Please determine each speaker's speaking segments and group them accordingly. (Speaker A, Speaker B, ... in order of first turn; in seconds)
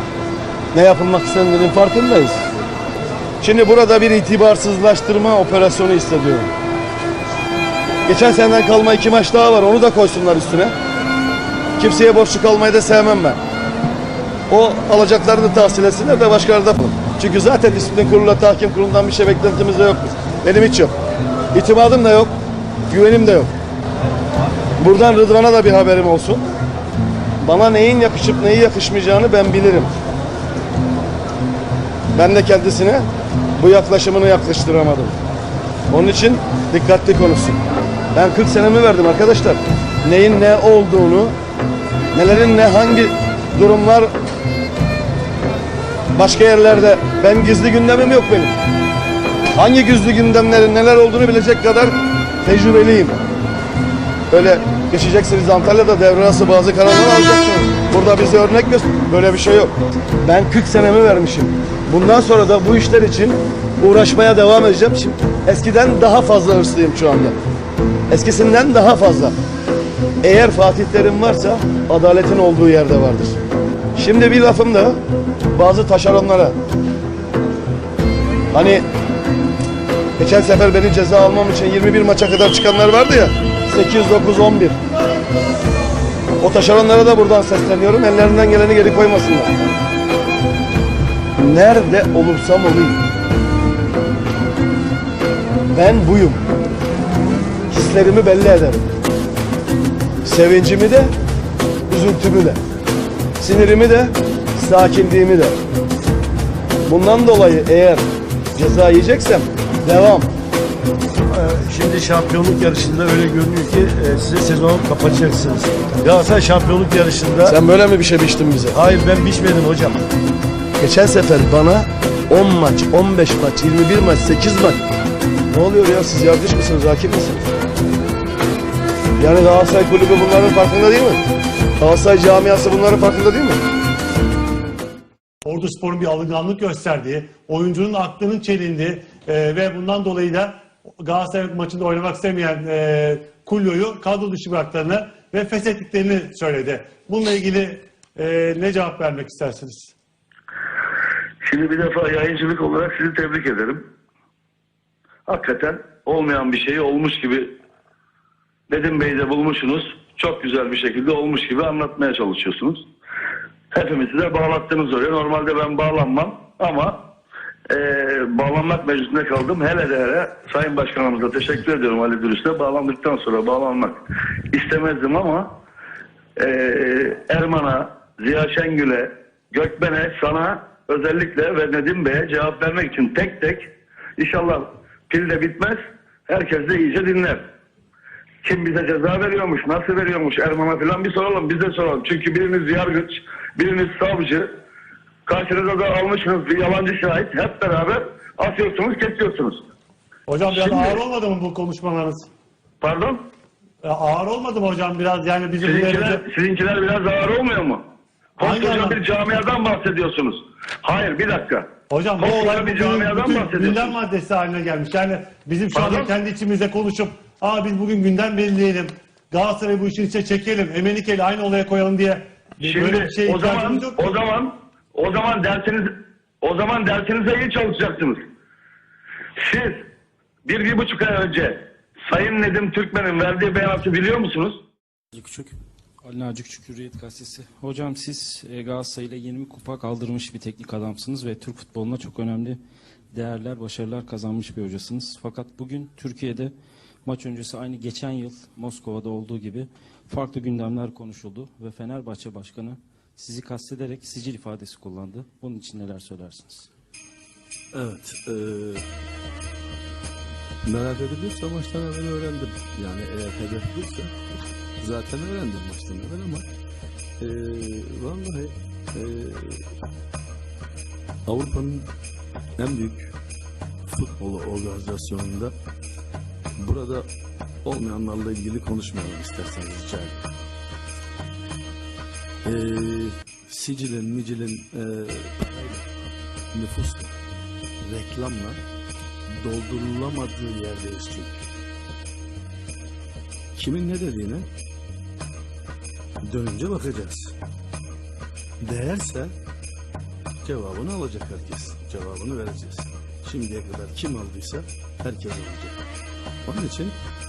Speaker A: 0.7-2.5, 3.4-6.5, 8.1-10.8, 11.8-13.4, 14.5-20.9, 21.5-22.3, 22.9-23.5, 24.8-26.4, 27.4-29.9, 32.1-35.2, 35.9-37.6, 38.1-41.4, 42.1-44.1, 46.1-48.5, 49.5-53.2, 54.3-67.4, 68.1-69.3, 70.2-73.4, 74.0-75.0, 75.5-76.5, 78.5-78.8, 80.2-84.8, 86.4-89.5, 91.4-93.0, 95.7-96.4, 97.7-98.9, 100.2-101.1, 101.9-102.6, 103.4-105.6, 106.9-110.3, 117.4-118.8, 120.8-124.8, 125.5-127.4, 129.2-131.2, 131.8-133.6
Speaker B: 111.3-120.0
Speaker C: 135.4-149.9, 200.3-202.3, 203.8-206.2, 208.4-209.0, 211.9-224.0
Speaker D: 151.4-153.8, 155.3-157.5, 158.7-162.8, 163.7-167.0, 167.7-174.0, 174.5-175.5, 176.4-187.4, 188.4-194.5, 195.3-199.6, 200.5-201.0, 202.8-203.2, 205.6-207.8, 208.4-214.0, 215.7-216.1, 222.7-225.9, 226.4-228.2, 229.4-229.8, 230.4-234.6
Speaker E: 235.2-242.6, 243.1-246.5, 247.1-256.7
Speaker F: 257.7-258.9, 260.6-264.1, 264.8-266.4, 267.2-269.6, 271.3-271.9, 272.6-273.1, 273.9-275.5, 276.6-277.1, 277.6-280.2, 282.5-285.9, 286.5-287.1, 287.8-288.6, 289.4-291.3, 293.6-294.5, 296.3-297.3, 298.6-299.3, 300.4-305.8, 306.4-306.9